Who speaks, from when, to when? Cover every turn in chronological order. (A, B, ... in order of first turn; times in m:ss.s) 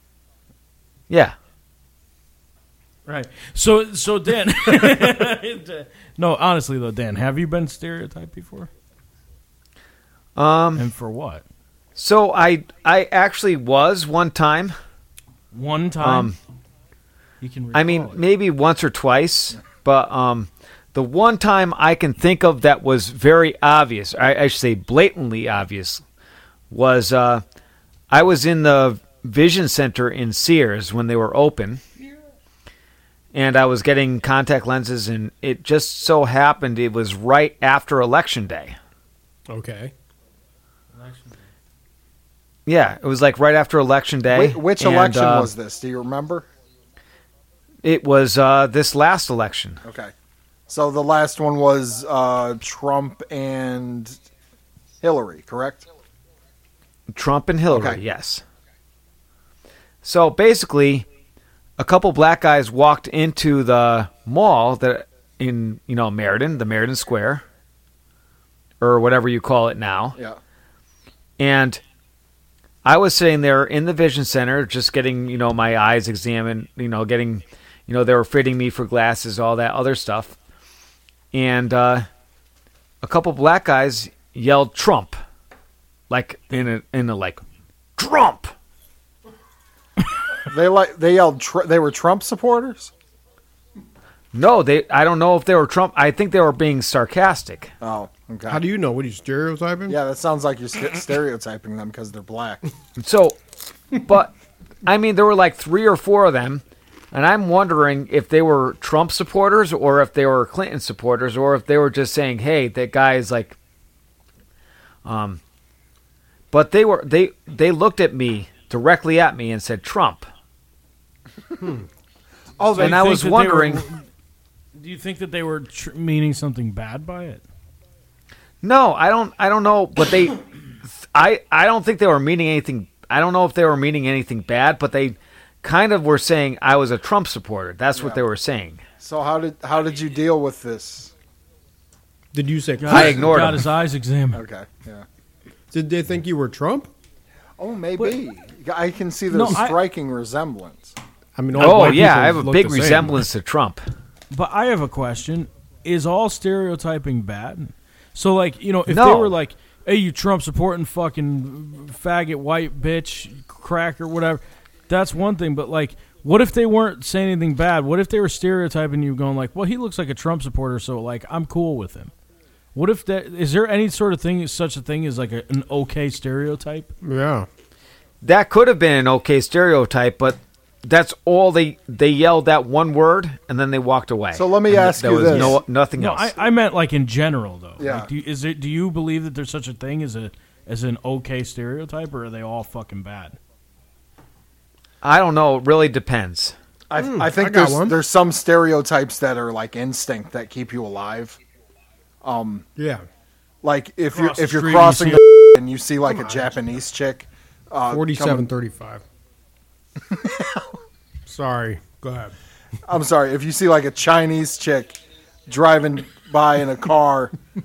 0:01.1-0:01.4 A
0:03.1-0:08.7 B
0:10.4-0:10.8 A
0:10.8-0:11.4 B
0:12.0-0:14.8 A
0:15.5-0:16.3 B
0:16.0-0:16.4 A
0:17.4-0:18.2 B
0:17.7-0:26.0 A
0:26.7-0:27.4 A
0:28.1-0:31.8 A
0:33.3-0:38.8 A
0:39.5-0:39.9 C
0:40.9-0:41.4 B
0:42.7-0:45.5 A
0:44.3-0:46.5 D
0:47.8-0:49.8 A
0:49.8-0:50.1 D
0:50.7-0:54.2 D
0:55.0-0:55.9 D
0:57.1-0:58.4 A
0:57.7-0:58.0 D
1:00.0-1:01.1 A
1:01.8-1:07.4 A
1:08.8-1:10.2 A
1:11.4-1:11.8 A
1:12.8-1:20.4 A
1:21.3-1:22.1 A
1:23.0-1:25.2 A
1:26.1-1:27.4 A
1:28.0-1:28.5 A
1:30.5-1:32.9 D
1:34.3-1:37.7 A
1:37.8-1:38.6 D
1:38.5-1:40.0 C
1:39.9-1:42.6 D
1:43.0-1:43.4 A
1:43.9-1:44.3 A
1:44.8-1:53.6 A
1:55.0-1:55.4 A
1:56.5-2:00.3 A
2:01.6-2:01.9 C
2:02.6-2:03.0 D
2:02.7-2:04.1 B
2:02.8-2:03.8 A
2:04.8-2:07.4 B
2:08.6-2:10.4 A
2:11.0-2:18.8 A
2:19.0-2:21.1 D
2:22.3-2:23.4 C
2:22.8-2:24.4 B
2:22.9-2:23.7 A
2:24.3-2:25.1 D
2:25.7-2:26.9 C
2:27.6-2:31.0 D
2:29.3-2:29.8 B
2:31.4-2:33.2 C
2:31.6-2:33.8 A
2:34.3-2:52.1 B
2:38.9-2:39.3 A
2:52.8-2:56.9 B
2:57.0-2:57.5 C
2:58.2-3:06.4 A
3:04.3-3:05.6 D
3:06.0-3:13.4 B
3:07.8-3:08.1 D
3:15.0-3:16.6 A
3:16.9-3:21.4 D
3:17.0-3:18.0 C
3:22.2-3:22.7 D
3:22.8-3:23.0 C
3:23.6-3:28.5 D
3:24.1-3:25.2 B
3:26.1-3:26.5 C
3:27.9-3:29.0 C
3:30.1-3:30.7 D
3:31.2-3:32.4 C
3:32.9-3:37.3 D